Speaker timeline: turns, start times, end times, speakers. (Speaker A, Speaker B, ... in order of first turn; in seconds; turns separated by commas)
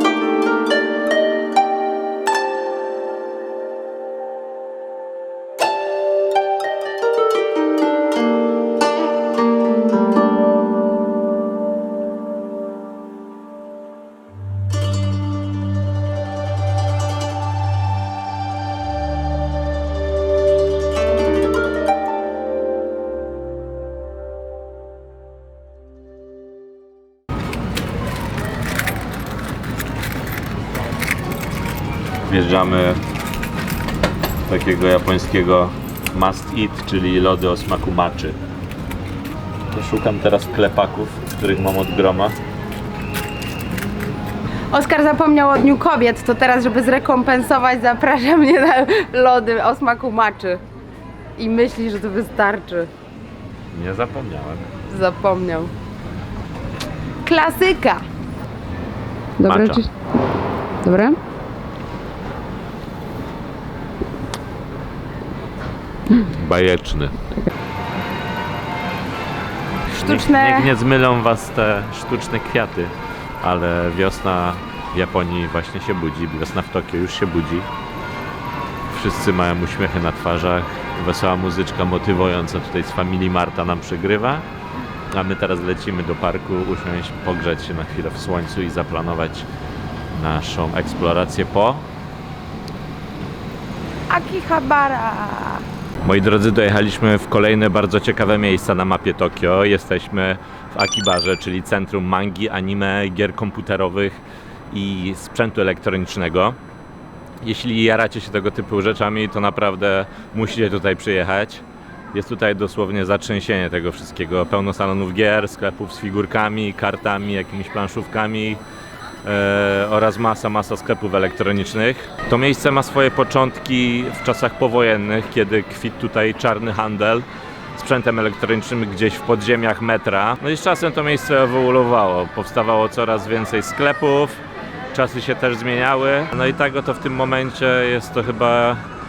Speaker A: 32.3-33.0, Speaker A: 34.5-38.4, Speaker A: 39.7-42.4, Speaker B: 44.7-50.6, Speaker B: 51.4-52.9, Speaker A: 53.7-54.7, Speaker B: 54.9-55.7, Speaker B: 57.2-58.0, Speaker B: 59.4-59.9, Speaker A: 59.4-59.8, Speaker B: 60.8-61.2, Speaker A: 66.2-67.2, Speaker B: 69.9-70.7, Speaker A: 70.0-77.7, Speaker A: 78.9-84.5, Speaker A: 85.1-89.5, Speaker A: 90.1-91.8, Speaker B: 94.1-95.6, Speaker A: 96.0-106.6, Speaker A: 107.4-118.6, Speaker A: 119.2-134.4, Speaker A: 134.9-138.8